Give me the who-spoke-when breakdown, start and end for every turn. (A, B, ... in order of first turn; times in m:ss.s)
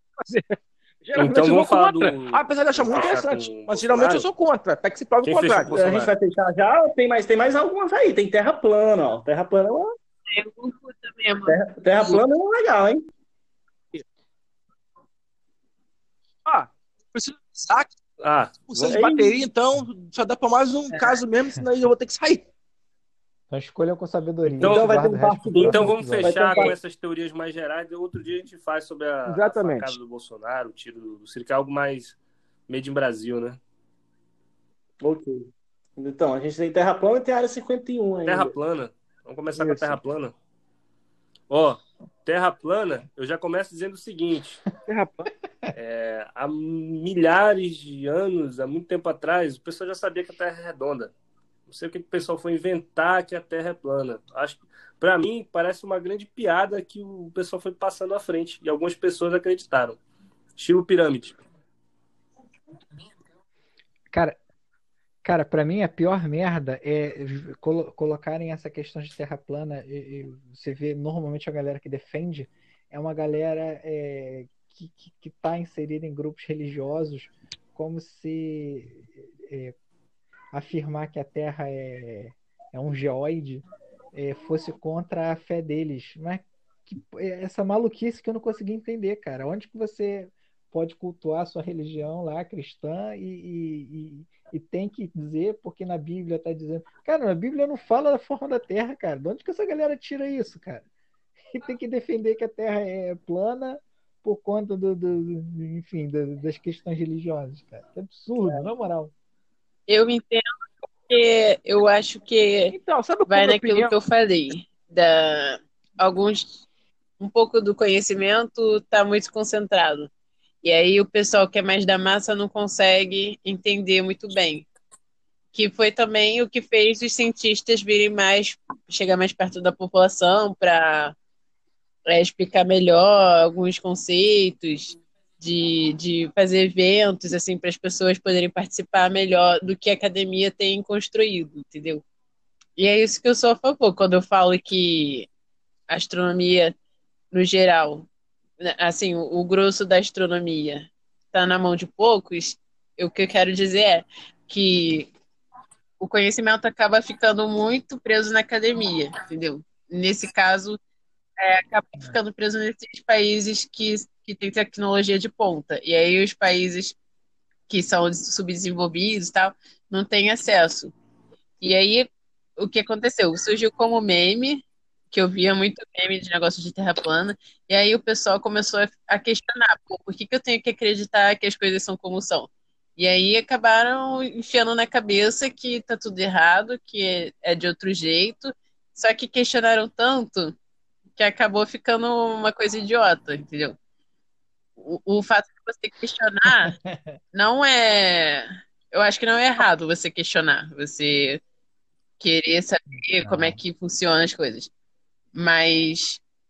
0:00.2-0:05.7 A
0:01.2-0:04.3 B
0:05.2-0:06.1 B
0:05.7-0:09.9 C
0:10.3-0:11.6 D
0:11.5-0:13.0 C
0:16.5-0:18.0 A
0:18.2-0:18.6 B
0:18.7-0:22.4 A
0:18.8-0:19.4 C
0:23.5-0:26.7 E
0:24.6-0:26.8 C
0:24.6-0:32.2 B
0:29.3-0:30.0 A
0:32.7-0:33.6 B
0:35.0-0:38.5 C
0:38.2-0:40.3 B
0:39.6-0:40.0 A
0:41.5-0:44.6 B
0:44.9-0:45.3 A
0:45.7-0:51.1 B
0:51.7-1:00.0 B
1:00.6-1:01.4 B
1:04.1-1:04.4 E
1:05.2-1:19.8 E
1:20.5-1:40.8 E
1:41.5-1:49.1 E
1:48.4-1:48.7 C
1:49.9-1:50.5 D
1:51.1-1:52.8 D
1:52.7-1:54.0 A
1:53.3-1:56.6 D
1:57.2-2:00.1 D
2:00.6-2:04.7 D
2:05.5-2:11.2 D
2:12.1-2:22.0 D
2:22.8-2:25.3 D
2:25.9-2:26.7 D
2:27.3-2:28.1 D
2:28.6-2:35.1 D
2:36.0-2:40.8 D
2:41.4-2:47.0 D
2:47.7-2:50.9 D
2:51.6-3:10.6 D
3:11.2-3:13.8 D
3:14.8-3:16.8 D
3:16.5-3:17.0 E
3:17.3-3:21.4 D
3:22.2-3:24.7 D
3:23.2-3:23.6 E
3:25.3-3:26.2 D